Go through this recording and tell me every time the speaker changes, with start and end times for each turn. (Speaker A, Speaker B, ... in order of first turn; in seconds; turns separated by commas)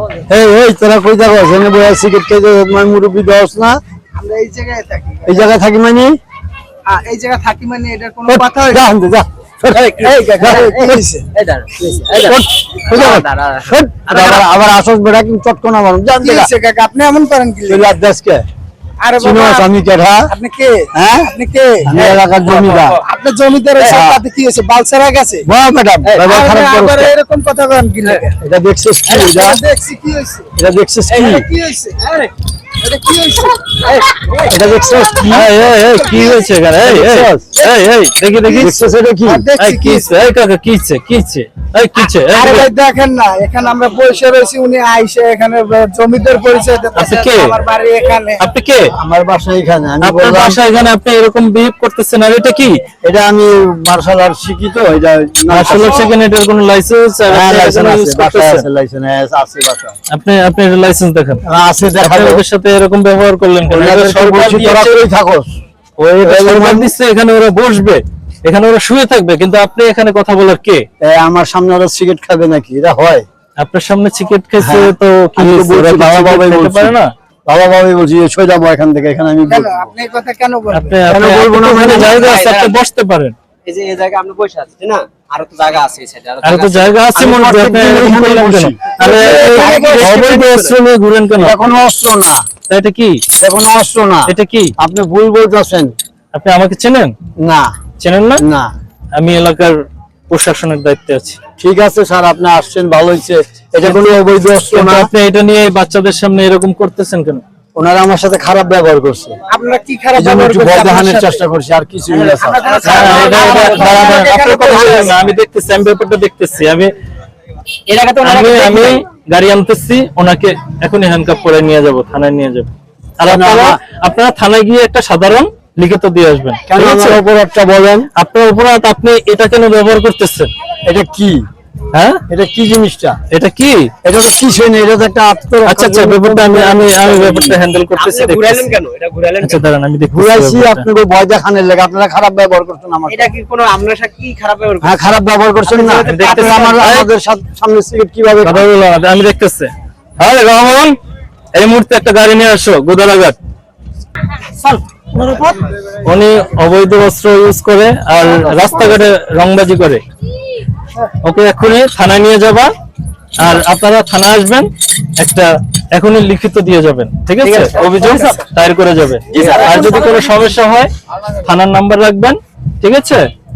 Speaker A: 0.3-3.8, Speaker B: 4.2-5.5, Speaker A: 5.3-6.2, Speaker B: 6.9-8.8, Speaker A: 8.3-11.1, Speaker C: 9.7-14.4, Speaker B: 10.4-11.3, Speaker A: 12.2-16.5, Speaker B: 14.1-14.4, Speaker B: 16.2-17.9, Speaker A: 17.7-18.5, Speaker B: 19.0-19.7, Speaker A: 19.2-20.3, Speaker B: 20.3-22.2, Speaker A: 20.9-23.0, Speaker C: 22.4-23.0, Speaker B: 22.9-25.5, Speaker C: 23.8-24.0, Speaker A: 23.9-24.2, Speaker A: 25.4-27.1, Speaker C: 26.0-26.4, Speaker B: 26.2-28.4, Speaker A: 28.4-29.6, Speaker B: 29.1-30.5, Speaker A: 30.6-31.5, Speaker B: 31.1-32.1, Speaker B: 32.8-33.8, Speaker C: 33.8-34.5, Speaker A: 34.5-35.6, Speaker D: 35.3-38.8, Speaker B: 35.9-36.5, Speaker A: 36.8-37.5, Speaker B: 38.4-40.2, Speaker A: 38.5-39.5, Speaker D: 39.6-42.7, Speaker B: 42.1-48.4, Speaker D: 47.0-47.5, Speaker D: 48.4-48.9, Speaker A: 49.0-50.6, Speaker D: 50.0-52.8, Speaker A: 53.0-56.1, Speaker D: 55.5-58.6, Speaker A: 57.3-60.0, Speaker D: 60.1-61.4, Speaker A: 61.5-62.4, Speaker D: 62.0-64.9, Speaker A: 63.7-65.5, Speaker D: 66.0-70.8, Speaker A: 66.2-66.9, Speaker A: 71.0-73.2, Speaker D: 73.6-77.1, Speaker A: 74.6-79.9, Speaker B: 79.5-81.0, Speaker D: 80.7-83.4, Speaker A: 81.1-82.3, Speaker C: 81.9-82.8, Speaker C: 83.7-87.0, Speaker D: 86.4-91.6, Speaker A: 87.1-90.5, Speaker B: 89.0-90.1, Speaker C: 89.2-90.7, Speaker A: 91.3-92.4, Speaker D: 92.7-93.2, Speaker A: 93.4-95.9, Speaker D: 94.3-94.7, Speaker D: 96.3-97.1, Speaker A: 97.4-97.7, Speaker D: 98.0-98.4, Speaker A: 98.4-98.7, Speaker D: 99.2-99.8, Speaker D: 100.3-101.4, Speaker A: 101.6-105.1, Speaker D: 103.8-104.2, Speaker D: 104.7-107.4, Speaker A: 107.8-109.4, Speaker B: 109.5-111.4, Speaker A: 110.2-114.2, Speaker C: 112.1-114.1, Speaker B: 112.3-115.2, Speaker D: 112.8-116.9, Speaker C: 117.9-119.0, Speaker D: 118.2-127.2, Speaker A: 123.2-123.8, Speaker A: 126.7-128.1, Speaker D: 128.2-130.5, Speaker A: 130.8-131.4, Speaker D: 131.9-132.2, Speaker A: 132.3-133.2, Speaker D: 133.3-133.9, Speaker A: 134.0-137.6, Speaker D: 135.7-138.8, Speaker C: 137.9-139.6, Speaker D: 139.4-140.9, Speaker A: 140.1-143.3, Speaker C: 143.1-145.0, Speaker A: 144.8-148.7, Speaker C: 145.7-147.0, Speaker D: 146.1-147.1, Speaker D: 148.4-150.9, Speaker D: 151.6-153.4, Speaker B: 154.7-155.6, Speaker D: 156.0-160.0, Speaker C: 158.2-159.0, Speaker D: 161.2-162.7, Speaker D: 163.4-173.3, Speaker C: 167.4-168.5, Speaker C: 169.3-170.2, Speaker B: 169.3-170.3